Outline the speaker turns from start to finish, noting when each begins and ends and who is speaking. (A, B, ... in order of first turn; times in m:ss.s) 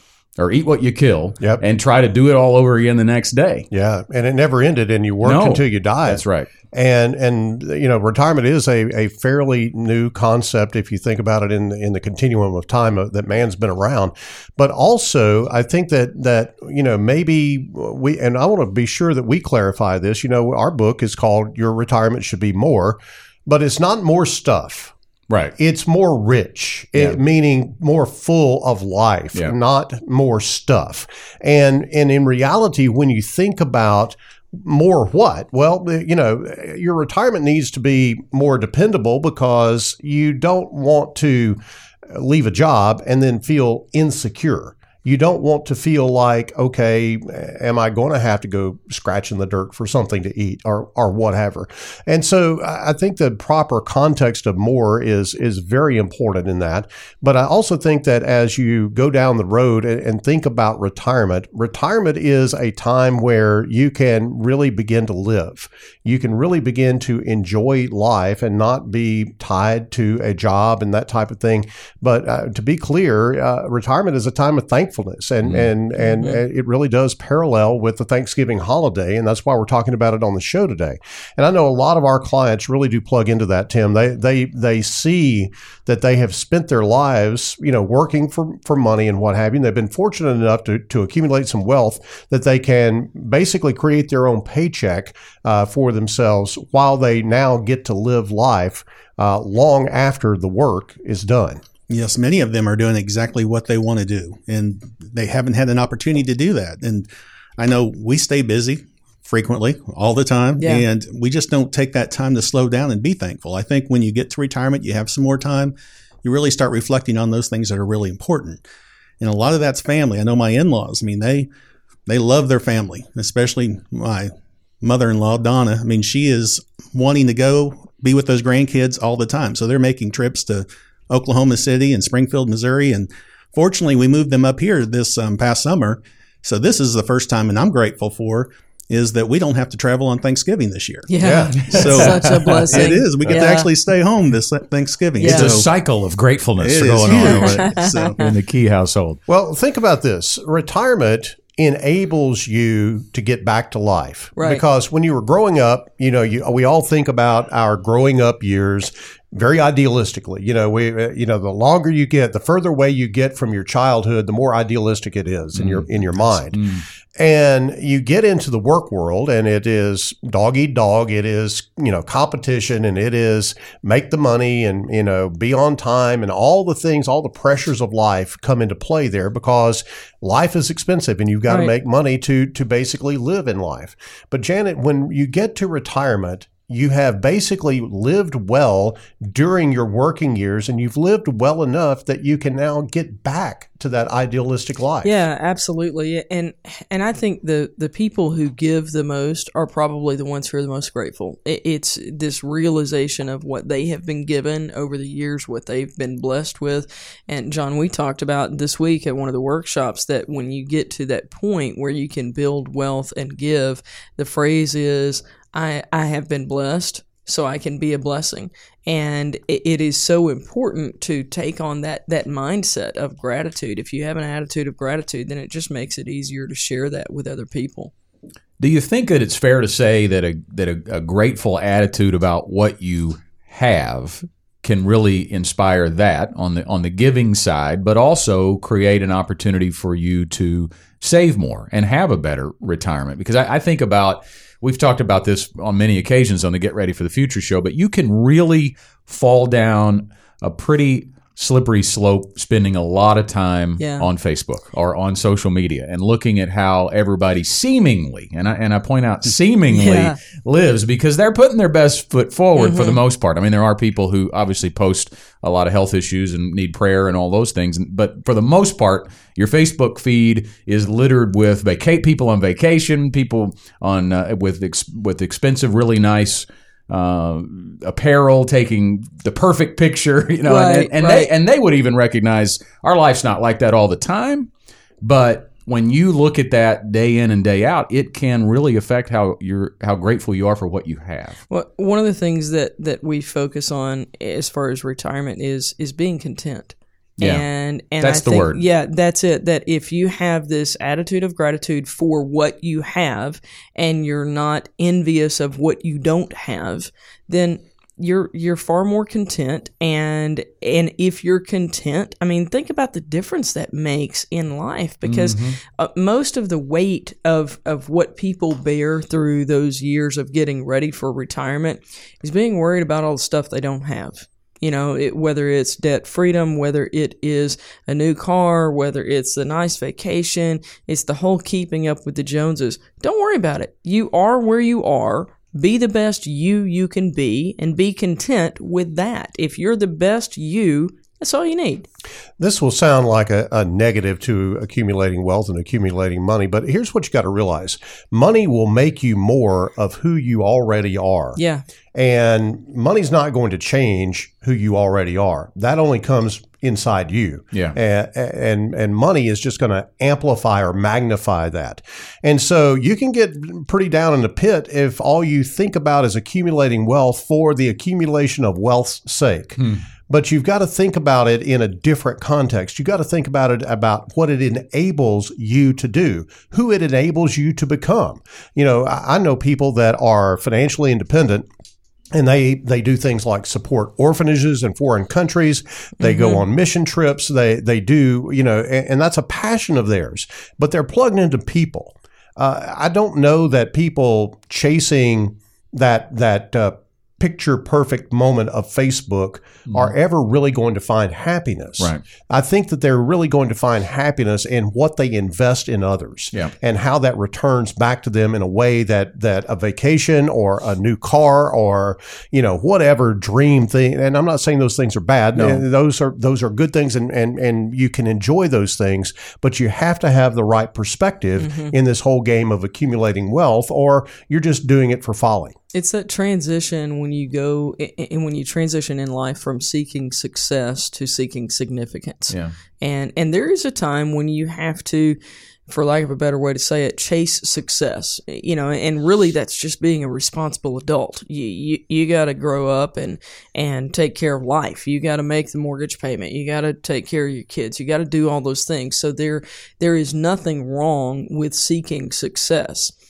0:00.4-0:03.7 A
0:03.7-0:24.9 B
0:05.2-0:06.5 A
0:25.6-0:41.6 B
0:42.1-1:41.6 B
1:16.0-1:16.4 C
1:41.9-1:58.6 D
1:50.6-1:50.8 C
1:59.2-2:01.5 D
2:02.1-2:21.1 D
2:21.1-2:23.7 C
2:21.2-2:21.8 B
2:21.6-2:25.7 D
2:21.7-2:22.9 A
2:25.2-2:25.5 C
2:25.2-2:29.2 A
2:26.6-2:28.2 D
2:27.3-2:28.2 C
2:29.3-2:46.6 B
2:34.4-2:34.6 C
2:45.6-2:46.8 A
2:47.2-3:15.1 B
3:01.5-3:01.7 C
3:15.0-3:47.9 C
3:48.6-4:44.5 A
4:13.8-4:14.1 C
4:19.7-4:20.2 C
4:22.6-4:23.0 C
4:40.4-4:41.3 C
4:45.0-4:51.4 A
4:51.5-5:41.9 C
4:57.2-4:57.5 A
4:58.0-4:58.6 A
5:15.0-5:15.6 A
5:42.4-5:51.4 B
5:51.4-5:51.6 C
5:51.9-6:21.5 B
6:22.1-7:05.5 B
6:26.0-6:26.4 C
6:39.7-6:39.9 A
6:55.4-6:55.6 A
7:01.4-7:01.8 C
7:05.7-7:32.9 C